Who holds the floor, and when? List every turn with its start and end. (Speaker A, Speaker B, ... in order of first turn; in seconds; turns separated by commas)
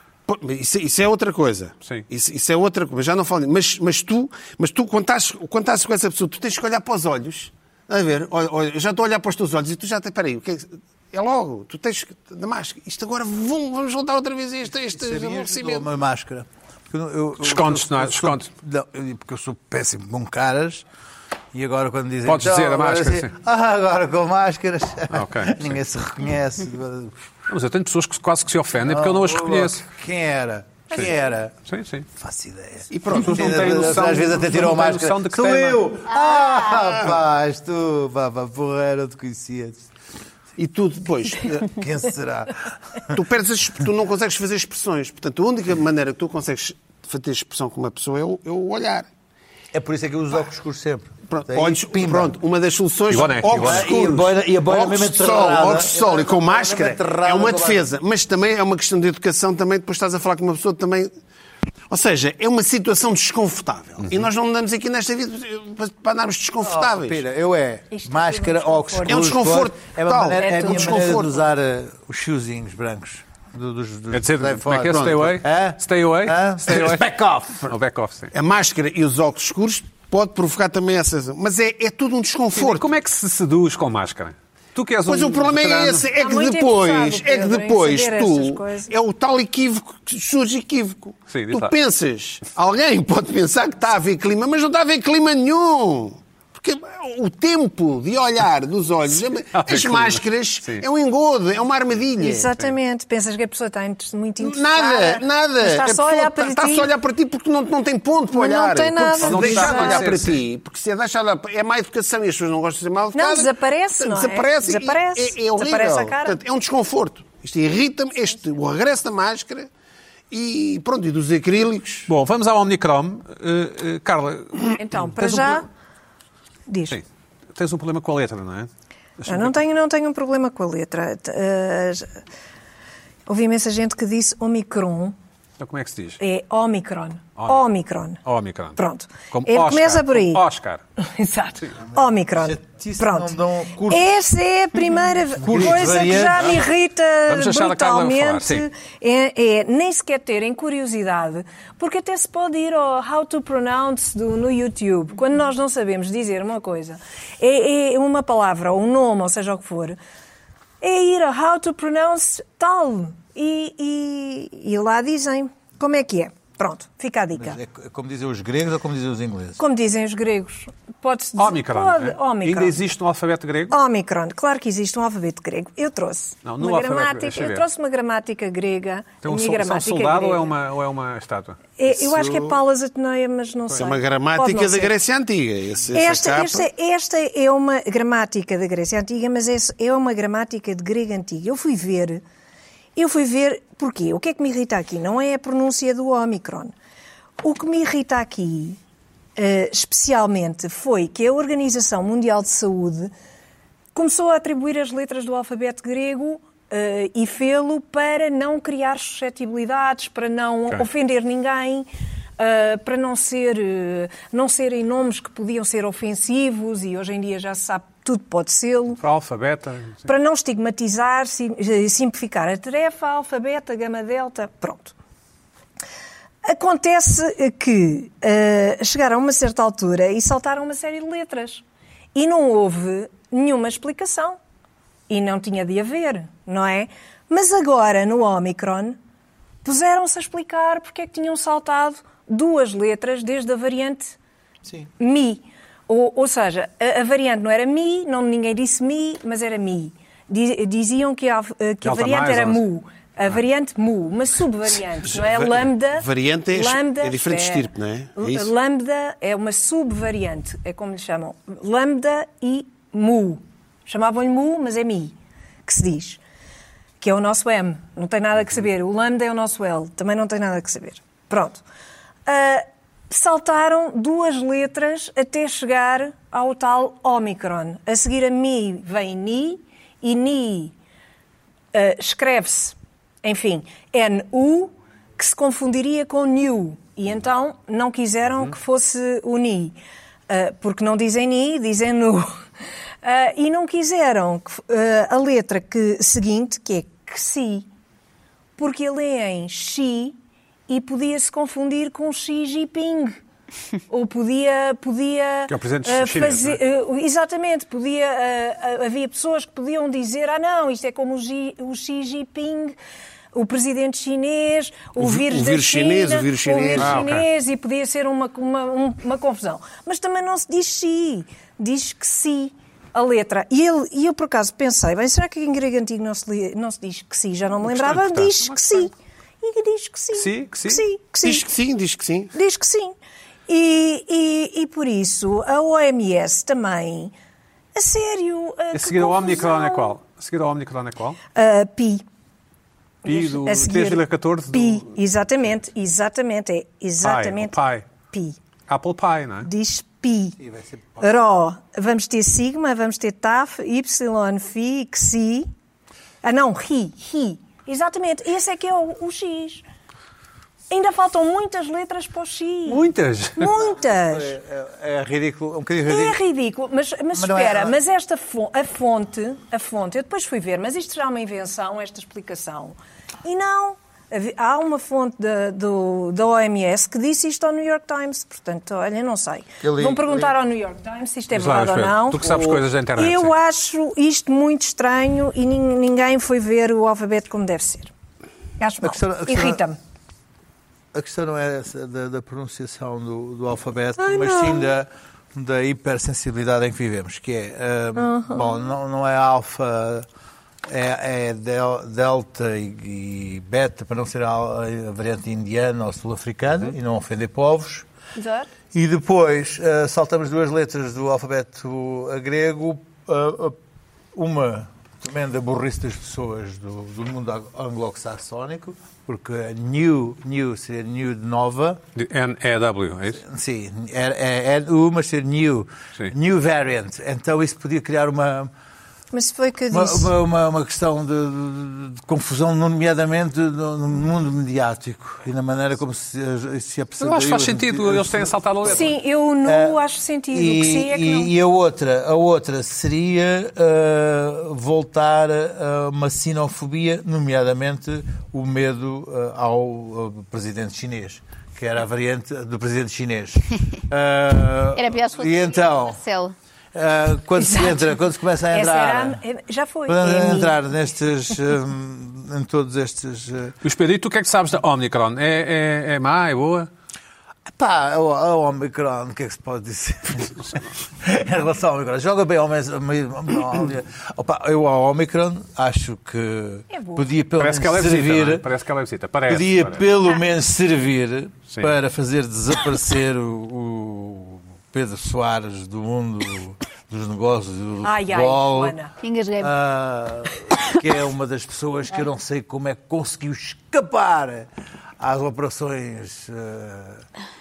Speaker A: 0.3-15.9, Speaker B: 14.9-20.9, Speaker C: 17.4-18.5, Speaker B: 21.5-27.1, Speaker C: 22.3-23.3, Speaker C: 25.1-25.7, Speaker C: 27.5-29.9, Speaker B: 28.8-31.5, Speaker C: 31.7-32.1, Speaker B: 32.2-39.9, Speaker A: 32.9-33.9, Speaker C: 33.1-35.9, Speaker D: 36.1-36.8, Speaker A: 40.6-41.8, Speaker B: 41.5-43.2, Speaker A: 43.1-49.1, Speaker B: 49.7-52.4, Speaker A: 51.3-61.1, Speaker C: 53.1-53.9, Speaker B: 53.5-57.9, Speaker A: 61.9-67.2, Speaker B: 66.6-77.6, Speaker E: 67.9-69.4, Speaker A: 69.1-71.3, Speaker E: 70.4-71.2, Speaker C: 74.1-77.0, Speaker C: 77.7-78.3, Speaker A: 78.3-82.9, Speaker C: 82.5-86.1, Speaker A: 85.1-102.5, Speaker E: 86.2-88.9, Speaker C: 91.3-91.7, Speaker C: 99.5-100.9, Speaker E: 102.2-106.9, Speaker A: 104.4-119.7, Speaker E: 108.3-110.1, Speaker C: 109.2-110.4, Speaker E: 113.1-116.4, Speaker A: 120.3-122.1, Speaker C: 122.1-125.6, Speaker E: 124.8-125.7, Speaker E: 126.7-127.0, Speaker C: 126.9-129.5, Speaker E: 129.3-132.1, Speaker E: 133.3-135.2, Speaker C: 135.6-136.2, Speaker E: 136.2-138.2, Speaker C: 137.4-137.7, Speaker C: 138.2-140.8, Speaker E: 138.8-140.4, Speaker E: 141.0-143.4, Speaker B: 142.4-144.2, Speaker E: 143.9-160.0, Speaker B: 145.4-146.6, Speaker C: 145.4-146.7, Speaker C: 147.3-148.7, Speaker E: 160.8-167.6, Speaker B: 167.3-169.6, Speaker E: 169.6-172.8, Speaker C: 171.4-173.8, Speaker E: 173.7-180.5, Speaker C: 176.4-177.7, Speaker C: 179.2-181.6, Speaker E: 181.8-184.9, Speaker A: 182.1-182.5, Speaker A: 183.7-186.7, Speaker E: 185.9-192.2, Speaker E: 193.0-196.7, Speaker E: 197.4-198.8, Speaker E: 199.4-203.1, Speaker E: 203.9-219.0, Speaker C: 219.0-220.1, Speaker E: 220.1-224.9, Speaker E: 226.4-231.6, Speaker E: 232.1-234.4, Speaker E: 235.1-239.0, Speaker E: 239.6-244.2, Speaker E: 245.0-265.1, Speaker C: 251.8-252.6, Speaker C: 255.1-255.6, Speaker A: 255.9-258.5, Speaker E: 265.7-266.2, Speaker E: 267.0-271.6, Speaker E: 272.3-280.7, Speaker E: 281.7-289.8, Speaker E: 290.3-292.4, Speaker E: 293.0-297.7, Speaker E: 298.6-300.2, Speaker E: 300.7-303.1, Speaker E: 303.9-312.8, Speaker C: 305.5-306.6, Speaker E: 313.3-331.5, Speaker A: 315.0-317.1, Speaker C: 316.8-317.3, Speaker C: 327.7-328.9, Speaker C: 330.1-330.8, Speaker A: 331.2-332.3, Speaker E: 332.3-332.9, Speaker E: 333.5-337.1, Speaker E: 337.7-339.9, Speaker C: 338.7-341.2, Speaker E: 341.3-342.0, Speaker C: 343.1-344.9, Speaker E: 343.1-347.6, Speaker C: 347.0-347.9, Speaker E: 348.1-348.4, Speaker C: 348.7-349.5, Speaker E: 349.4-350.4, Speaker B: 350.5-351.0, Speaker E: 351.0-355.5, Speaker E: 356.2-359.6, Speaker E: 360.7-364.4, Speaker C: 362.7-363.5, Speaker B: 364.0-366.2, Speaker E: 365.9-387.9, Speaker B: 367.1-367.8, Speaker B: 379.6-380.4, Speaker C: 381.3-383.4, Speaker B: 382.2-382.6, Speaker E: 388.6-389.8, Speaker B: 388.8-389.6, Speaker B: 390.9-400.1, Speaker E: 394.0-394.6, Speaker E: 398.0-398.4, Speaker B: 400.7-407.9, Speaker E: 408.2-408.5, Speaker B: 408.7-413.6, Speaker B: 414.1-421.8, Speaker C: 421.9-423.2, Speaker B: 423.2-428.5, Speaker E: 429.1-430.1, Speaker B: 429.7-456.0, Speaker C: 437.0-438.9, Speaker E: 438.7-441.3, Speaker D: 454.8-456.4, Speaker B: 456.7-459.2, Speaker E: 457.4-457.9, Speaker E: 458.5-460.5, Speaker B: 459.9-463.6, Speaker C: 463.6-466.7, Speaker B: 467.6-478.5, Speaker E: 476.7-477.1, Speaker C: 477.4-479.9, Speaker B: 479.3-488.8, Speaker E: 487.8-488.9, Speaker D: 489.0-489.5, Speaker B: 489.4-497.1